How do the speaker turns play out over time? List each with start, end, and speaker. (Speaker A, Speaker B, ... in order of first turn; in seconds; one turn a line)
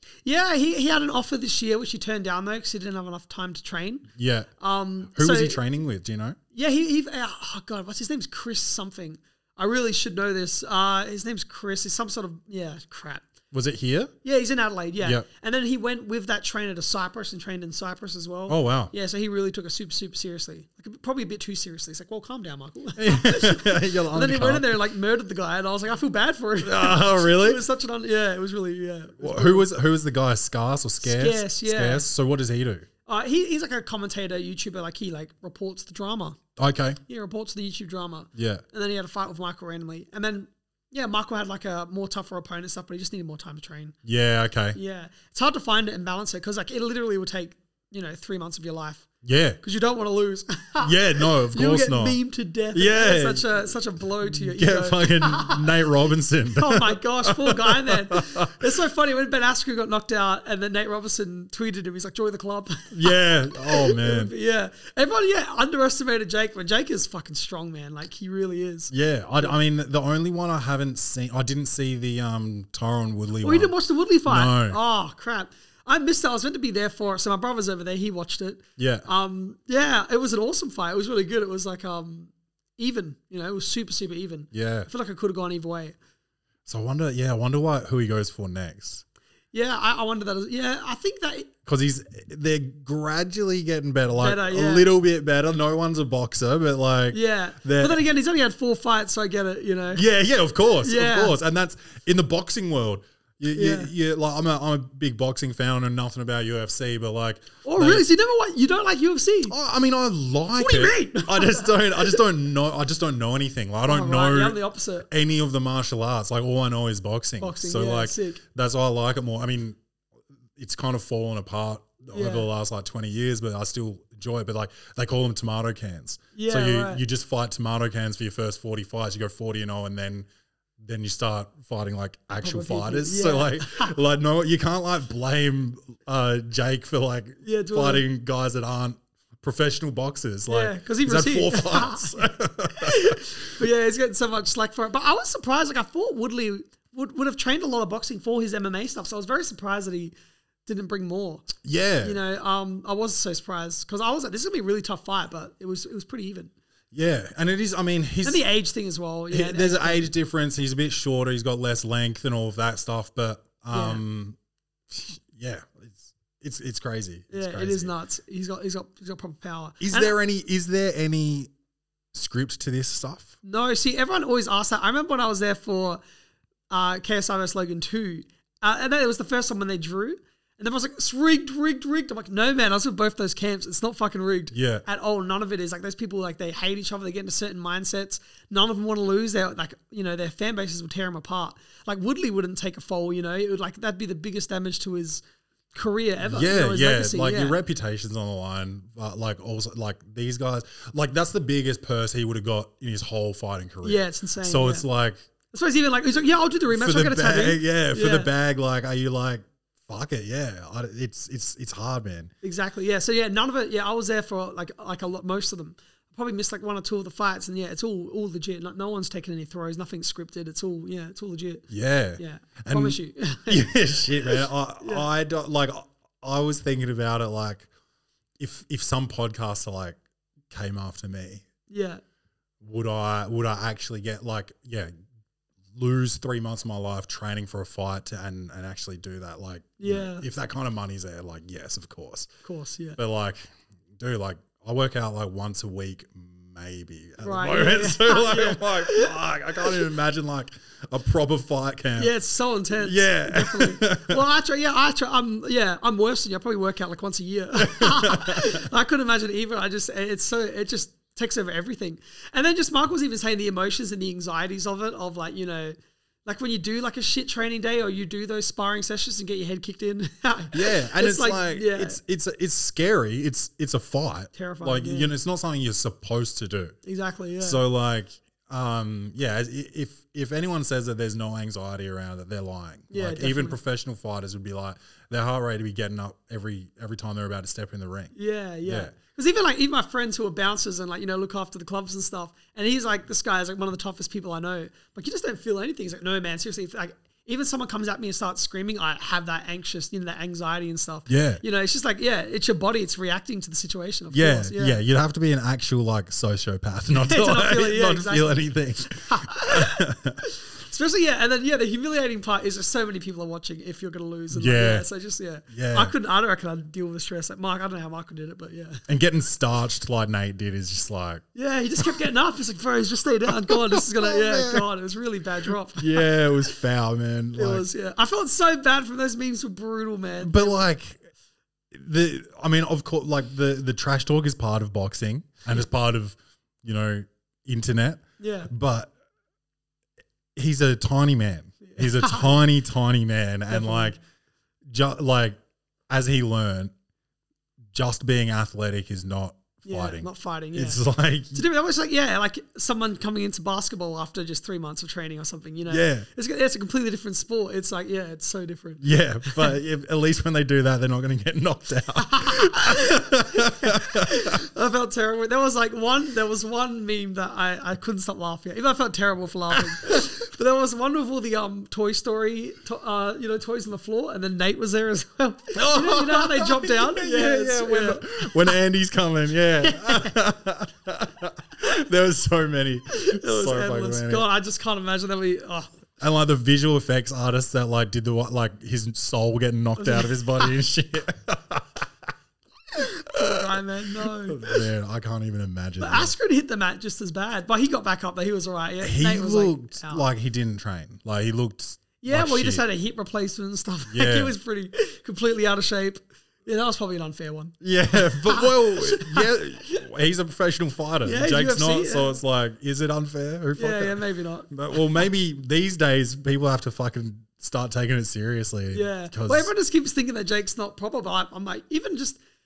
Speaker A: 0.2-5.6
Speaker B: 4.2-4.5
Speaker B: 5.1-6.4
Speaker A: 6.5-13.2
Speaker B: 13.5-14.1
Speaker A: 14.2-29.7
Speaker B: 15.0-15.2
Speaker B: 18.5-18.9
Speaker B: 22.9-24.7
Speaker B: 26.6-27.6
Speaker B: 29.2-32.9
Speaker A: 31.0-32.1
Speaker A: 33.0-36.4
Speaker B: 36.6-37.0
Speaker A: 37.1-43.9
Speaker B: 38.3-38.6
Speaker B: 44.0-44.8
Speaker A: 44.7-49.1
Speaker B: 49.2-49.6
Speaker A: 49.6-55.8
Speaker B: 50.8-52.2
Speaker B: 52.7-53.5
Speaker B: 54.2-58.5
Speaker A: 56.5-69.5
Speaker B: 62.9-64.3
Speaker B: 68.9-73.7
Speaker A: 73.4-86.0
Speaker B: 74.2-74.8
Speaker B: 78.8-79.1
Speaker B: 84.5-84.9
Speaker B: 86.7-89.0
Speaker A: 89.5-91.5
Speaker B: 91.6-98.0
Speaker A: 94.2-94.9
Speaker A: 97.1-100.0
Speaker B: 99.9-108.0
Speaker A: 100.8-101.3
Speaker A: 103.5-103.9
Speaker A: 107.6-109.5
Speaker B: 109.5-114.6
Speaker A: 110.6-112.2
Speaker A: 113.8-115.1
Speaker B: 115.1-119.8
Speaker A: 117.4-118.4
Speaker B: 120.5-130.3
Speaker A: 122.1-122.5
Speaker A: 126.3-127.0
Speaker B: 130.8-143.6
Speaker A: 132.4-133.9
Speaker A: 137.4-138.0
Speaker A: 140.5-150.1
Speaker A: 150.7-151.5
Speaker B: 151.6-152.2
Speaker A: 152.0-156.5
Speaker B: 156.9-158.4
Speaker A: 158.2-160.1
Speaker B: 159.3-164.4
Speaker A: 163.7-164.0
Speaker B: 164.9-167.9
Speaker A: 167.3-170.2
Speaker B: 169.8-171.5
Speaker B: 172.1-173.3
Speaker A: 173.4-176.0
Speaker A: 176.7-195.2
Speaker B: 184.5-184.8
Speaker A: 195.7-197.6
Speaker B: 196.2-205.2
Speaker A: 203.8-204.8
Speaker A: 205.5-208.3
Speaker B: 206.7-212.3
Speaker A: 212.4-221.7
Speaker B: 221.7-227.7
Speaker A: 222.2-223.7
Speaker A: 224.2-225.1
Speaker B: 228.4-230.0
Speaker B: 230.5-231.4
Speaker A: 231.7-232.0
Speaker B: 232.6-234.9
Speaker B: 235.7-242.3
Speaker A: 239.8-240.2
Speaker A: 242.4-243.0
Speaker B: 242.9-243.4
Speaker B: 243.9-252.1
Speaker A: 247.2-249.8
Speaker A: 252.0-272.0
Speaker B: 252.7-254.2
Speaker B: 257.6-258.6
Speaker B: 270.5-276.8
Speaker A: 274.3-275.1
Speaker A: 276.8-277.6
Speaker B: 277.4-288.9
Speaker A: 282.9-283.6
Speaker A: 288.1-304.8
Speaker B: 301.1-301.4
Speaker B: 304.1-310.2
Speaker A: 306.9-318.8
Speaker B: 314.3-314.9
Speaker B: 315.5-315.9
Speaker B: 318.9-321.2
Speaker A: 321.3-326.1
Speaker B: 323.3-324.6
Speaker B: 325.8-327.6
Speaker A: 327.4-330.6
Speaker B: 330.2-331.0
Speaker B: 331.7-338.9
Speaker A: 338.2-338.5
Speaker B: 340.4-344.0
Speaker A: 341.7-342.4
Speaker A: 343.5-343.9
Speaker B: 344.7-345.4
Speaker B: 345.9-346.7
Speaker B: 347.7-351.4
Speaker A: 349.6-350.8
Speaker A: 351.3-359.6
Speaker B: 355.7-356.1
Speaker B: 358.8-364.4
Speaker A: 361.9-378.6
Speaker B: 369.6-369.8
Speaker B: 375.5-384.2
Speaker A: 379.6-380.2
Speaker A: 382.9-385.7
Speaker B: 386.0-391.8
Speaker A: 389.8-390.5
Speaker A: 393.0-394.6
Speaker B: 393.1-393.4
Speaker B: 394.0-396.1
Speaker A: 395.8-400.0
Speaker B: 398.8-402.6
Speaker A: 402.0-409.3
Speaker B: 403.9-404.3
Speaker B: 407.6-419.5
Speaker A: 411.0-412.2
Speaker A: 413.6-415.0
Speaker A: 418.7-422.2